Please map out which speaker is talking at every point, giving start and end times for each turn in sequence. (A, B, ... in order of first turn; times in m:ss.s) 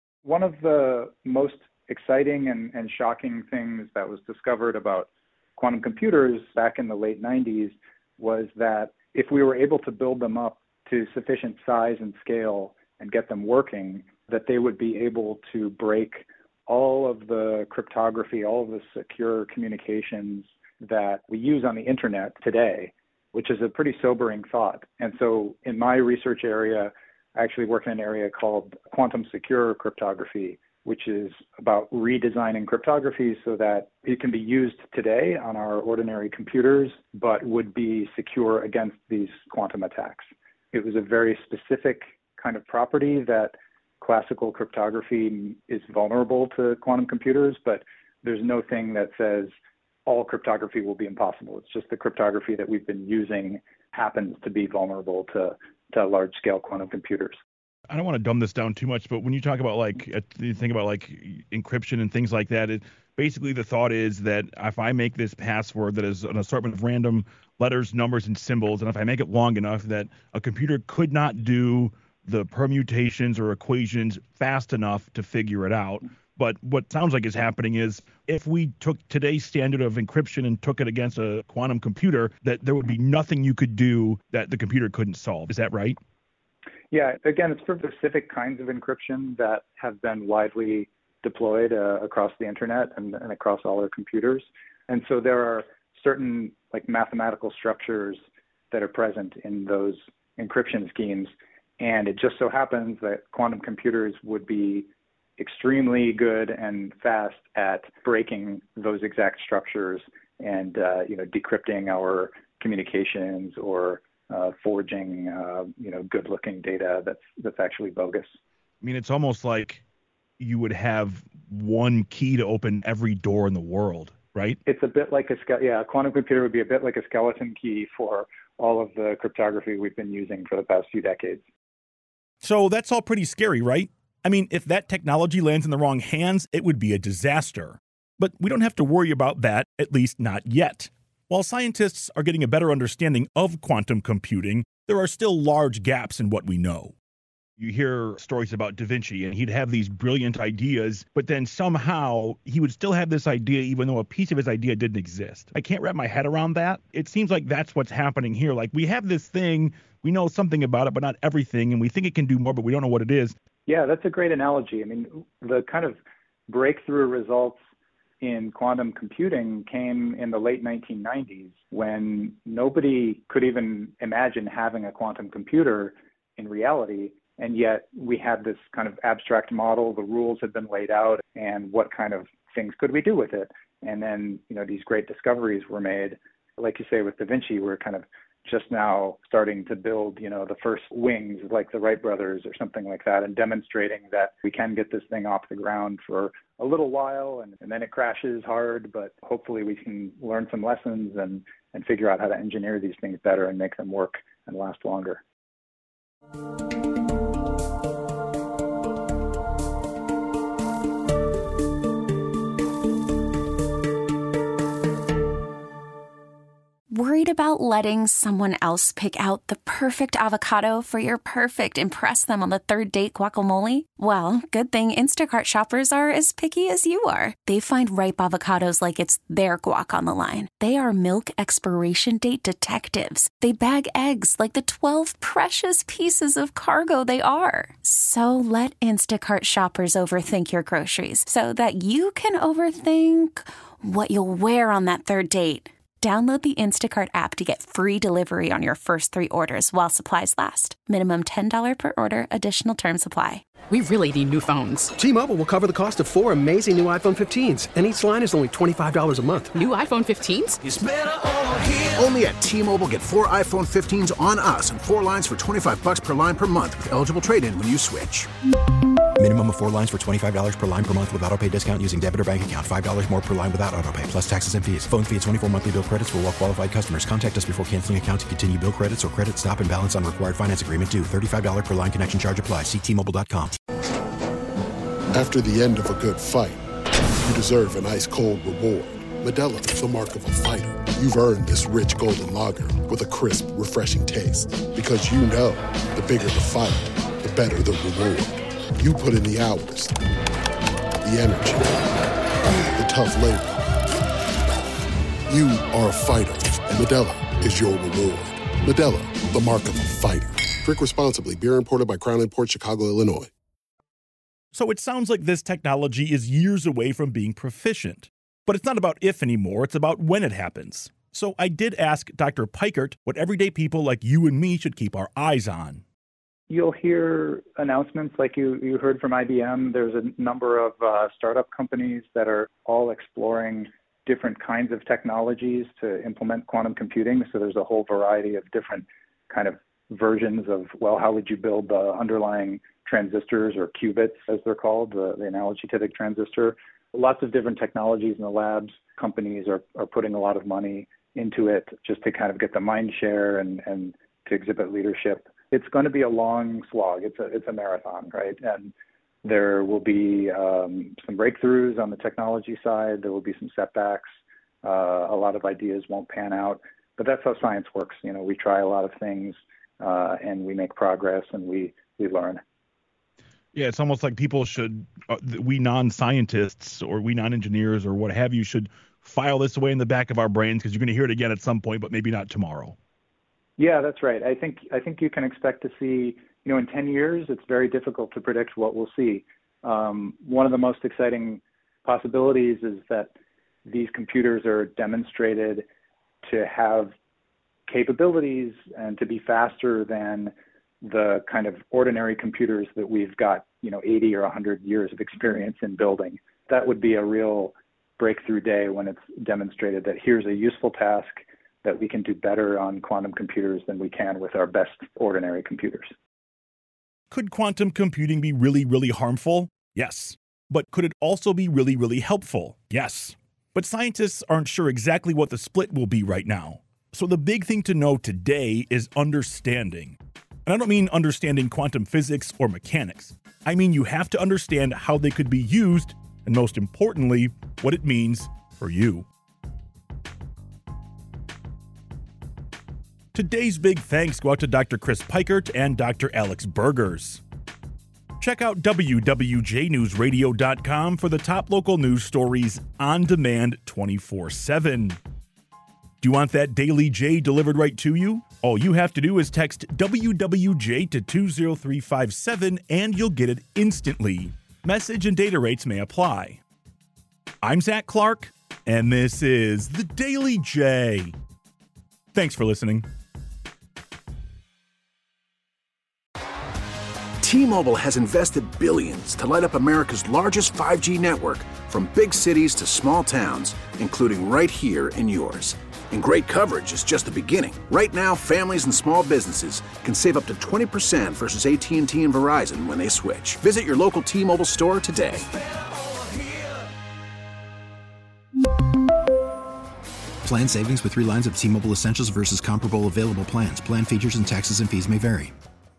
0:00.2-0:57.4 A
0:57.9-1:26.0 B
1:26.9-1:58.4 A
1:58.8-1:59.8 B
2:00.4-2:04.6 B
2:04.7-2:11.4 A
2:12.4-2:27.0 B
2:27.6-2:43.4 B
2:43.7-2:47.6 A
2:48.2-3:25.2 A
3:36.9-4:13.4 C
4:13.7-4:14.9 D
4:15.0-4:19.6 E
4:19.6-4:20.6 D
4:21.9-4:28.3 F
4:29.2-4:43.6 G
4:45.1-4:46.6 H
4:47.2-4:59.9 H
5:01.0-5:01.7 H
5:02.8-5:03.6 H
5:05.3-5:13.3 H
5:14.5-5:25.8 B
5:26.5-5:58.7 A
5:59.2-6:12.4 A
6:13.6-6:22.8 B
6:23.6-6:33.1 A
6:33.7-6:35.7 A
6:36.2-6:36.9 A
6:37.7-6:55.9 A
6:57.1-7:19.1 B
7:23.1-7:27.2 B
7:28.2-7:35.0 B
7:36.0-7:46.4 B
7:47.4-7:51.1 B
7:52.1-7:52.9 B
7:57.2-8:15.3 F
8:20.2-8:25.3 G